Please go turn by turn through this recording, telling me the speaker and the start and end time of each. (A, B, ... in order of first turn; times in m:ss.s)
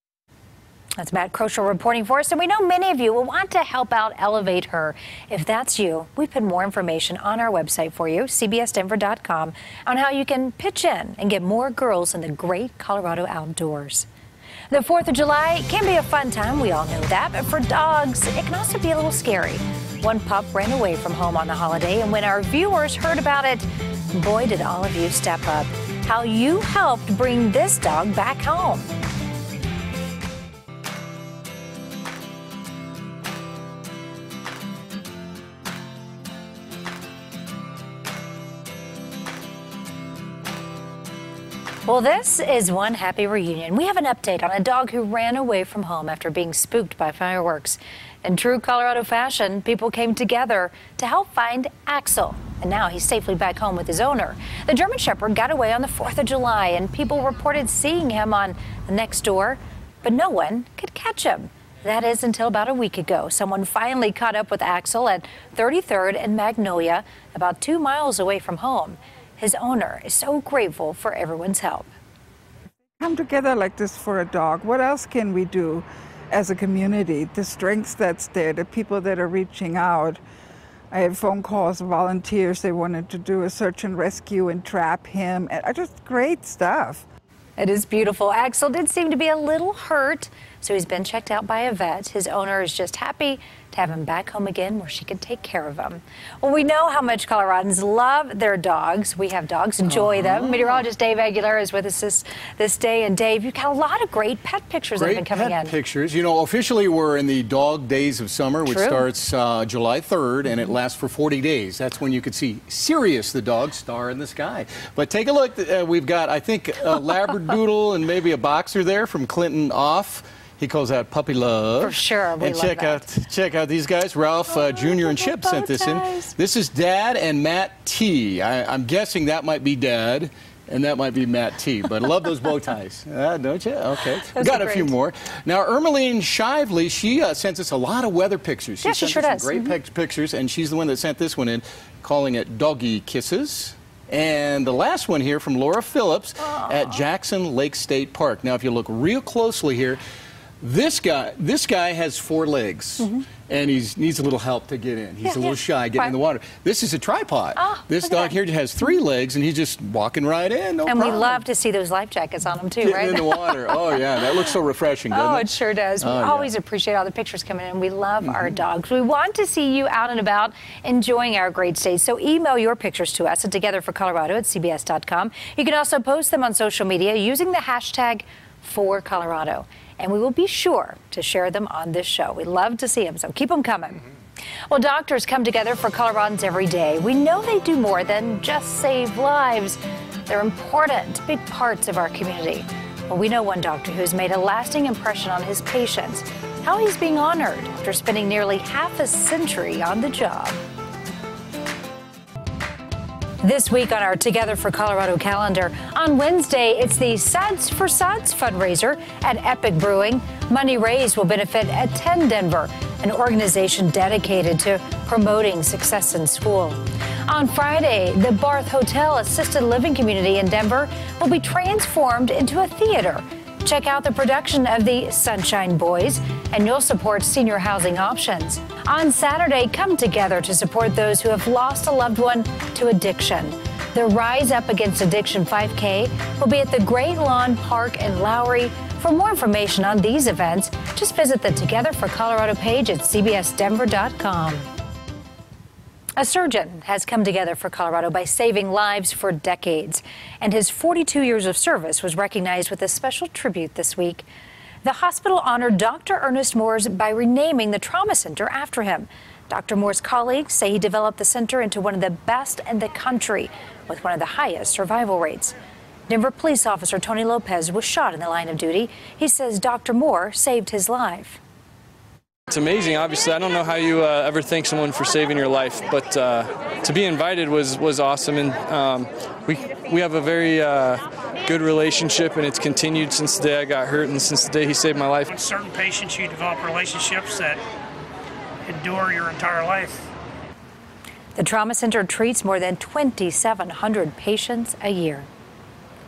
0:01.0-0:14.1 A
0:14.7-0:28.9 A
0:41.9-1:11.9 A
1:13.4-1:15.7 B
1:16.5-1:20.1 B
1:21.0-1:26.9 B
1:27.6-1:45.8 A
1:40.1-1:40.4 C
1:45.0-2:30.0 C
1:48.6-1:49.1 A
2:01.8-2:03.1 A
2:04.6-2:06.3 A
2:14.3-2:14.9 A
2:18.8-2:19.8 A
2:26.4-2:27.0 A
2:30.6-2:41.4 C
2:35.2-2:36.2 A
2:37.6-2:38.9 A
2:40.8-2:44.6 A
2:42.8-2:45.5 C
2:45.1-3:04.0 A
2:46.0-2:46.5 C
3:04.7-3:20.6 A
3:23.4-4:04.7 A
4:06.2-4:14.2 A
4:14.8-4:25.6 A
4:26.1-4:31.4 A
4:32.7-4:40.9 D
4:41.5-4:45.2 D
4:45.3-4:47.6 E
4:48.7-4:50.1 E
4:51.4-4:55.3 A